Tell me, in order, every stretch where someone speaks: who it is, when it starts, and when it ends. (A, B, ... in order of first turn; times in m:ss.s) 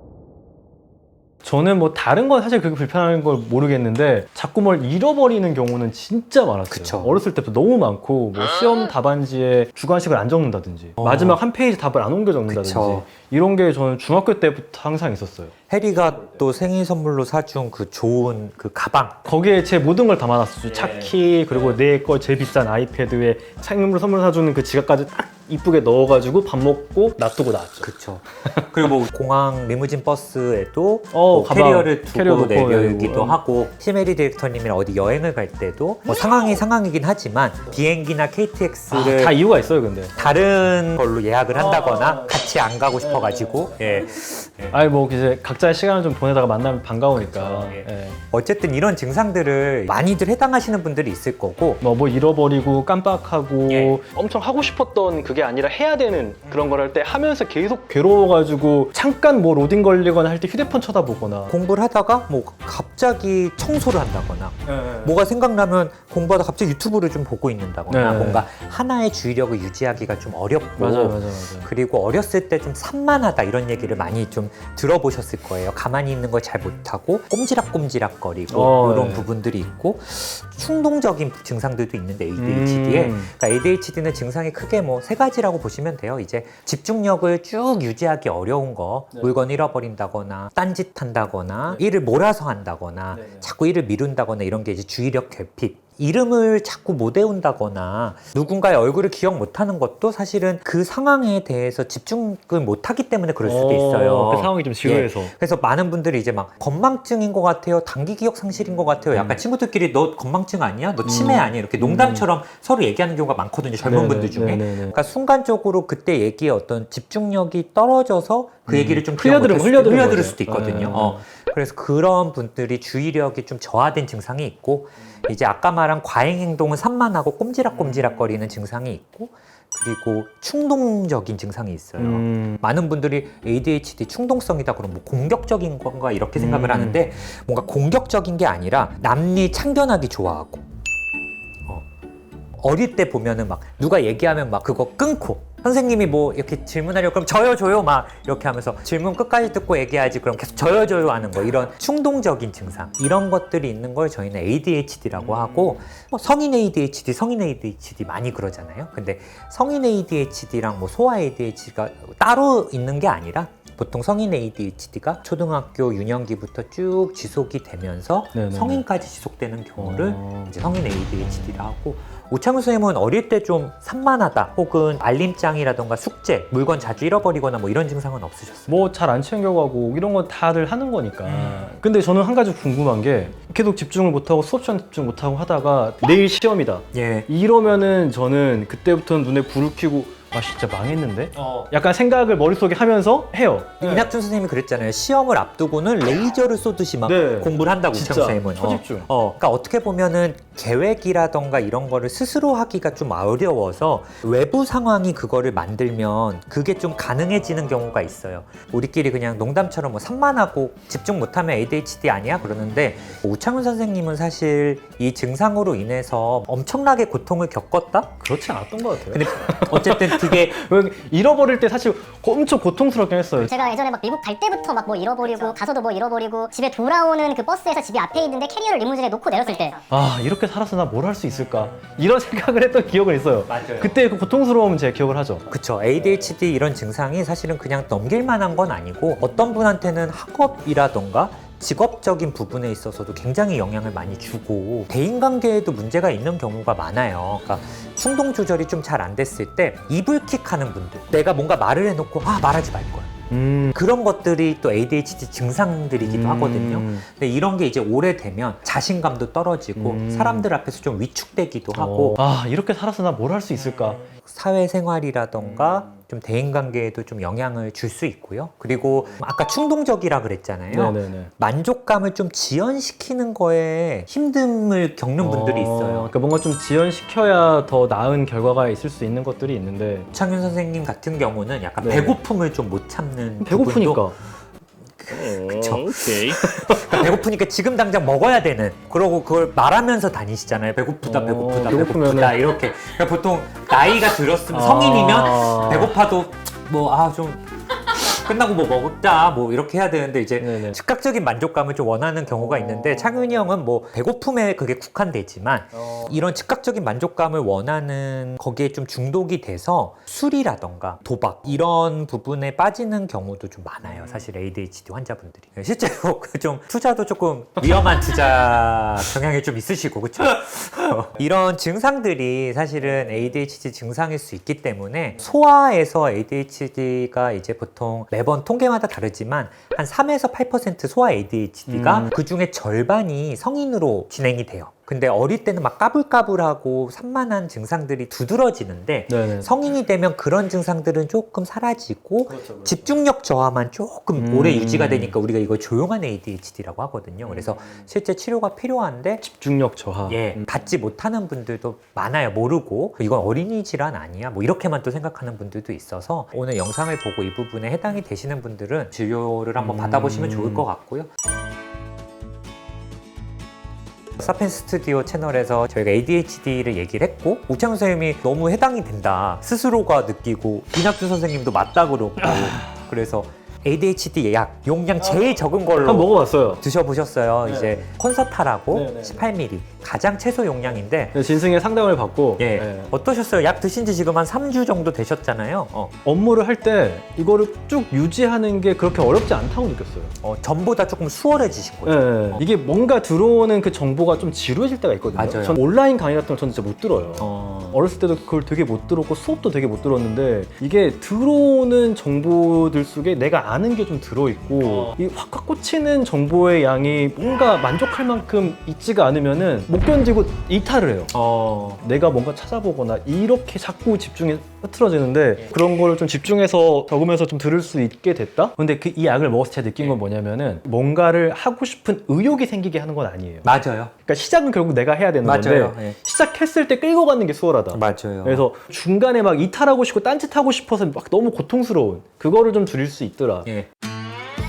0:01.4-0:15.5 A
0:06.7-0:07.2 B
0:11.0-0:11.4 B
0:12.5-0:13.1 B
0:15.7-0:19.2 B
0:19.2-0:27.9 A
0:20.7-0:21.8 B
0:27.8-0:39.4 B
0:31.1-0:33.4 A
0:38.9-0:40.4 A
0:40.2-0:44.8 B
0:41.5-0:44.1 A
0:44.7-0:48.2 A
0:47.1-0:51.8 B
0:51.8-1:01.5 A
0:53.7-0:54.0 B
1:01.5-2:20.6 B
1:04.7-1:05.2 A
1:07.9-1:08.5 A
1:10.8-1:11.7 A
1:18.5-1:19.3 A
1:22.4-1:23.3 A
1:33.1-1:33.5 A
1:43.4-1:45.3 A
1:49.1-1:49.4 A
1:51.0-1:52.3 A
1:53.8-1:55.0 A
1:58.7-2:01.2 A
2:07.8-2:08.2 A
2:12.0-2:12.6 A
2:16.4-2:17.0 A
2:22.6-2:58.9 B
2:35.2-2:35.8 A
2:48.4-2:48.8 A
2:49.8-2:50.6 A
2:58.7-3:14.1 A
3:01.2-3:01.7 B
3:06.9-3:07.3 B
3:11.4-3:11.7 B
3:13.8-3:38.2 B
3:17.0-3:19.1 A
3:38.2-3:43.5 A
3:39.1-3:40.6 B
3:43.4-3:49.8 C
3:49.9-3:55.5 A
3:53.5-3:54.0 B
3:55.5-4:13.2 B
4:13.3-4:13.8 A
4:13.7-4:22.2 B
4:16.0-4:17.0 A
4:19.8-4:20.5 A
4:21.7-4:24.0 A
4:24.1-4:36.1 B
4:30.7-4:31.3 A
4:35.2-4:40.1 A
4:40.1-4:44.1 B
4:41.8-4:42.2 A
4:43.4-4:44.2 A
4:45.0-5:49.2 B
4:45.1-4:47.2 A
4:51.0-4:52.4 A
4:54.5-4:56.0 A
5:00.4-5:00.8 A
5:02.4-5:03.2 A
5:05.7-5:06.3 A
5:23.0-5:23.3 A
5:31.7-5:32.2 A
5:39.1-5:39.5 A
5:42.3-5:42.9 A
5:44.2-5:45.2 A
5:47.2-5:47.8 A
5:49.2-5:50.5 A
5:50.1-6:01.1 B
5:59.6-6:00.7 A
6:04.2-6:21.2 B
6:12.2-6:12.7 A
6:15.0-6:16.6 A
6:17.4-6:17.9 A
6:18.7-6:19.3 A
6:21.1-6:22.9 A
6:22.4-6:25.9 B
6:26.0-6:30.1 A
6:30.2-6:32.4 B
6:31.8-6:51.1 A
6:35.2-6:35.6 B
6:37.2-6:37.8 B
6:44.6-6:45.0 B
6:51.1-6:51.8 B
6:51.8-7:03.5 A
7:03.4-7:03.9 B
7:04.1-7:13.5 A
7:05.2-7:06.0 B
7:07.7-7:08.5 B